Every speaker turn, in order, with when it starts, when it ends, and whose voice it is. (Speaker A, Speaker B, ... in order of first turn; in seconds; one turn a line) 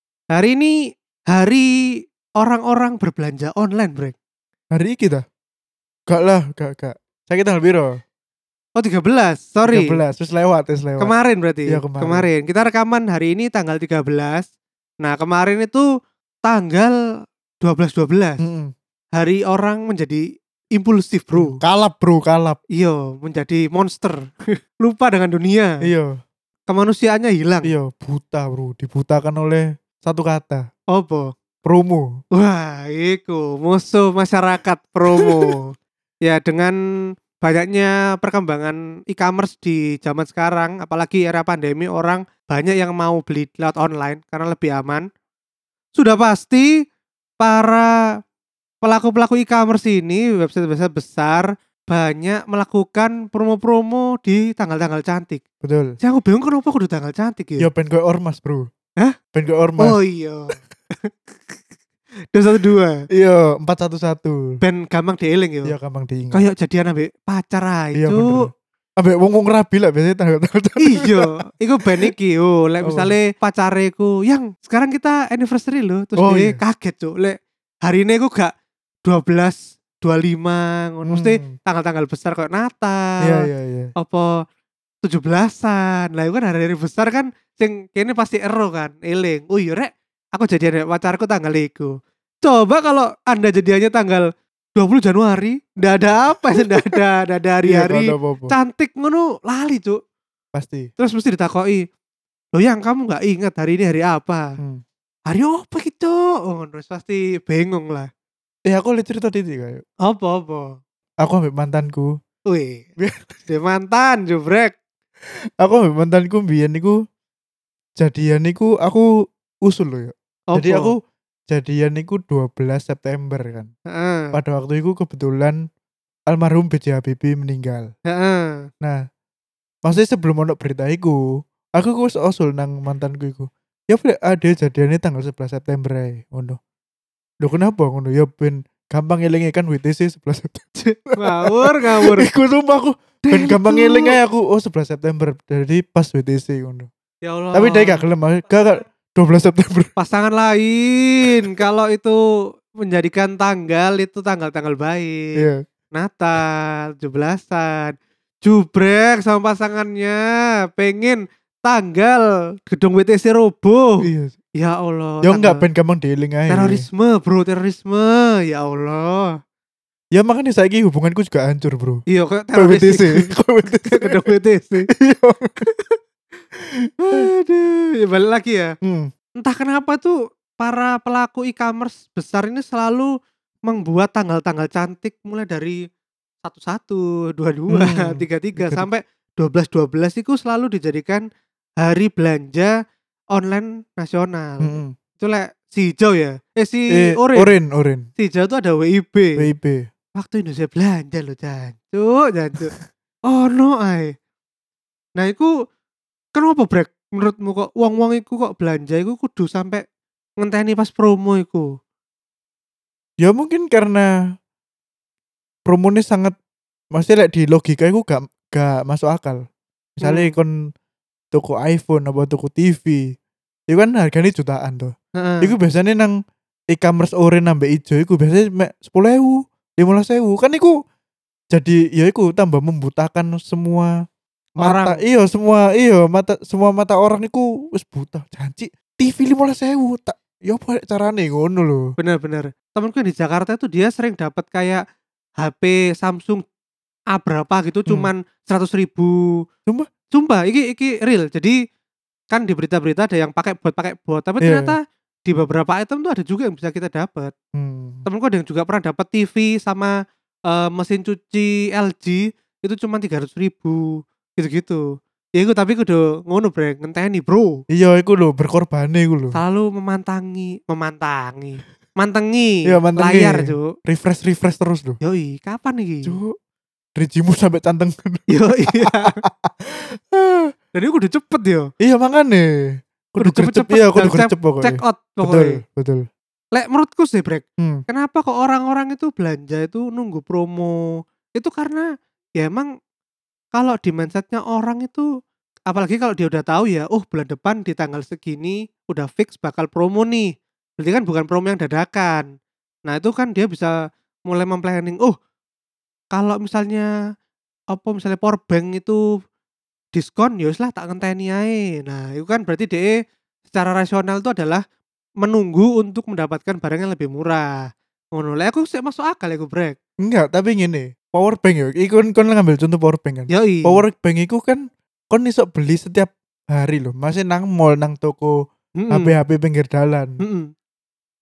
Speaker A: 0.3-0.8
Speaker A: 1.3-4.2
Speaker B: 4.7-5.2
Speaker B: 6.1-8.0
Speaker A: 8.8-10.0
Speaker B: 9.7-11.1
Speaker A: 11.0-14.5
Speaker B: 11.7-12.3
Speaker A: 15.0-15.9
Speaker A: 16.4-17.0
Speaker A: 17.6-18.4
Speaker B: 18.4-18.7
Speaker A: 19.2-21.6
Speaker B: 21.4-22.6
Speaker A: 22.8-24.2
Speaker A: 24.8-25.8
Speaker B: 25.8-26.1
Speaker A: 26.7-27.7
Speaker B: 27.6-30.7
Speaker A: 30.9-31.3
Speaker B: 31.6-32.2
Speaker A: 32.3-35.7
Speaker B: 35.2-35.5
Speaker A: 36.2-36.8
Speaker A: 37.4-45.1
Speaker A: 46.0-46.8
Speaker A: 47.4-48.0
Speaker A: 48.8-55.4
Speaker B: 55.6-56.0
Speaker A: 56.0-57.7
Speaker B: 57.6-58.7
Speaker B: 59.3-60.0
Speaker A: 59.8-61.6
Speaker A: 62.3-63.0
Speaker B: 63.1-64.6
Speaker A: 64.6-65.8
Speaker B: 65.7-66.5
Speaker A: 66.3-68.5
Speaker B: 68.0-71.3
Speaker A: 70.8-78.5
Speaker B: 72.8-73.1
Speaker B: 76.2-76.6
Speaker A: 79.0-84.4
Speaker B: 81.1-81.5
Speaker B: 83.2-83.9
Speaker A: 85.0-100.0
Speaker B: 96.6-97.0
Speaker B: 97.7-98.6
Speaker B: 100.5-100.9
Speaker A: 101.0-101.9
Speaker A: 102.5-104.5
Speaker A: 105.3-108.1
Speaker B: 108.7-109.8
Speaker A: 110.0-110.8
Speaker B: 111.2-112.2
Speaker A: 112.5-112.9
Speaker B: 113.0-113.4
Speaker A: 113.5-114.8
Speaker B: 115.6-117.0
Speaker B: 118.0-119.1
Speaker B: 119.7-121.0
Speaker A: 120.5-120.9
Speaker B: 121.5-123.7
Speaker A: 123.9-124.3
Speaker B: 124.3-125.6
Speaker B: 126.3-127.9
Speaker A: 128.1-128.7
Speaker B: 129.8-131.2
Speaker B: 131.8-136.6
Speaker B: 137.4-146.9
Speaker A: 140.8-142.3
Speaker A: 143.2-144.2
Speaker A: 147.2-148.0
Speaker B: 147.5-149.9
Speaker A: 150.0-152.2
Speaker A: 152.8-155.4
Speaker B: 155.4-155.6
Speaker A: 155.9-164.1
Speaker B: 164.0-164.4
Speaker A: 164.6-165.6
Speaker B: 165.2-166.8
Speaker A: 166.5-169.4
Speaker B: 170.1-172.0
Speaker A: 172.1-174.9
Speaker B: 172.6-174.2
Speaker B: 174.9-175.6
Speaker A: 175.6-176.0
Speaker A: 177.1-178.8
Speaker B: 178.8-179.1
Speaker A: 179.4-183.1
Speaker A: 183.7-185.8
Speaker A: 186.4-191.2
Speaker B: 187.7-188.9
Speaker A: 191.8-192.8
Speaker A: 193.3-197.6
Speaker B: 194.6-194.9
Speaker B: 196.9-198.1
Speaker A: 198.2-199.5
Speaker B: 199.4-199.9
Speaker A: 200.2-204.2
Speaker A: 205.2-205.5
Speaker A: 206.3-209.8
Speaker A: 210.4-211.7
Speaker B: 213.2-214.1
Speaker B: 215.7-216.3
Speaker B: 216.9-219.4
Speaker B: 220.0-220.7
Speaker A: 220.0-220.3
Speaker B: 221.3-223.1
Speaker B: 223.7-226.1
Speaker A: 225.2-225.5
Speaker B: 226.7-230.8
Speaker B: 231.5-233.9
Speaker A: 234.6-235.0
Speaker B: 234.6-241.9
Speaker A: 242.0-244.8
Speaker A: 245.4-246.4
Speaker A: 247.1-249.2
Speaker A: 250.1-251.6
Speaker A: 252.3-257.3
Speaker B: 254.4-254.8
Speaker B: 257.6-258.1
Speaker A: 258.1-259.9
Speaker A: 260.5-264.8
Speaker A: 265.4-267.6
Speaker B: 267.7-269.4
Speaker A: 269.3-273.7
Speaker B: 272.7-275.0
Speaker A: 275.0-276.1
Speaker B: 276.1-276.4
Speaker B: 277.0-280.5
Speaker A: 278.3-279.2
Speaker A: 280.7-281.7
Speaker B: 281.8-282.5
Speaker B: 283.1-286.1
Speaker A: 283.2-285.6
Speaker A: 286.5-290.8
Speaker B: 287.6-287.8
Speaker A: 291.3-291.9
Speaker A: 292.4-292.7
Speaker A: 293.5-295.1
Speaker A: 295.7-302.3
Speaker A: 302.9-303.8
Speaker A: 304.3-305.2
Speaker A: 306.1-306.9
Speaker A: 307.7-309.0
Speaker A: 309.9-312.9
Speaker A: 313.5-314.6
Speaker A: 315.2-319.8
Speaker B: 320.0-328.4
Speaker A: 323.3-323.9
Speaker A: 328.8-329.1
Speaker B: 328.9-330.2
Speaker A: 330.2-330.5